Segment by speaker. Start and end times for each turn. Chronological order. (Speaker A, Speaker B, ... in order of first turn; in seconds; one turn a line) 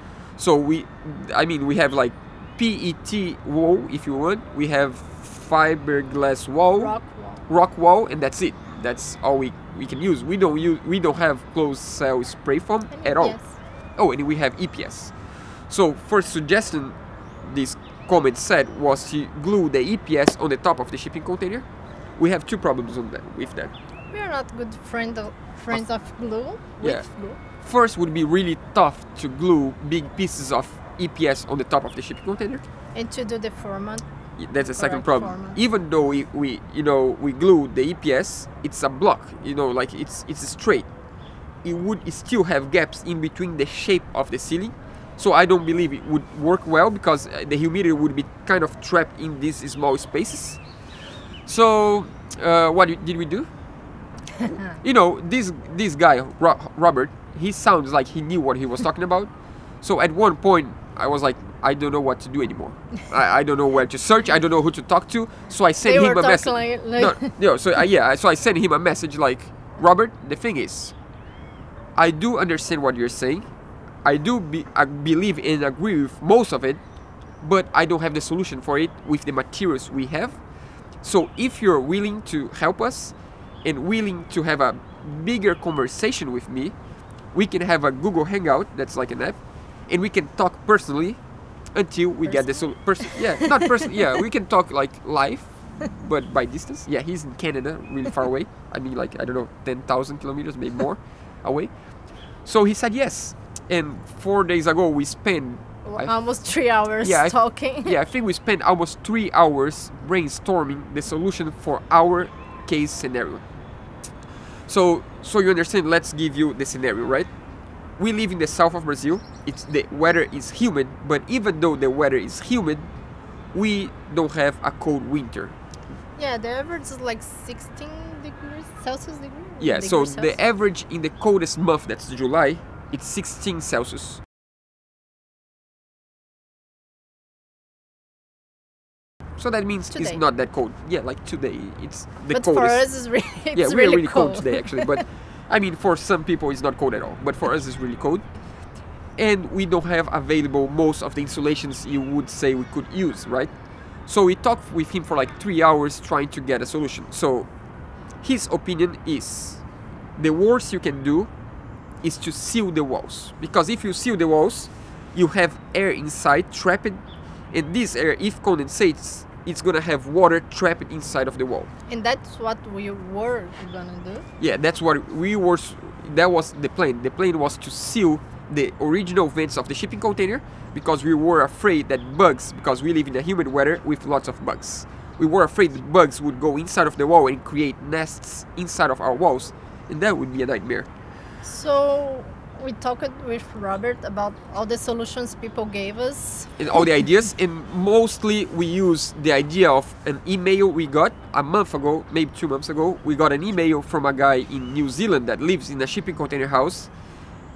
Speaker A: 0.4-13.4
Speaker B: 6.7-7.4
Speaker B: 12.9-13.6
Speaker A: 14.0-15.1
Speaker A: 15.7-21.6
Speaker A: 22.2-23.7
Speaker B: 24.1-27.4
Speaker A: 26.8-27.1
Speaker A: 27.6-32.6
Speaker B: 32.9-34.0
Speaker A: 34.4-40.9
Speaker B: 34.6-35.6
Speaker A: 41.6-50.6
Speaker A: 51.5-53.5
Speaker A: 54.8-59.3
Speaker A: 59.8-70.9
Speaker B: 65.8-67.3
Speaker A: 72.0-73.5
Speaker A: 74.0-76.8
Speaker A: 77.4-80.4
Speaker A: 81.0-86.7
Speaker A: 87.3-91.2
Speaker A: 91.7-101.7
Speaker B: 92.2-94.0
Speaker A: 102.4-106.1
Speaker B: 105.8-108.0
Speaker A: 107.0-113.4
Speaker A: 114.7-117.3
Speaker A: 118.0-122.9
Speaker A: 123.5-125.5
Speaker B: 126.2-130.4
Speaker A: 129.6-134.2
Speaker A: 139.4-142.8
Speaker B: 139.9-140.2
Speaker B: 142.3-145.0
Speaker A: 143.5-148.2
Speaker A: 149.2-153.5
Speaker A: 154.1-157.5
Speaker A: 158.2-159.6
Speaker A: 160.2-161.3
Speaker A: 162.0-171.7
Speaker B: 171.9-174.3
Speaker A: 174.4-190.9
Speaker B: 191.4-196.6
Speaker A: 196.6-206.9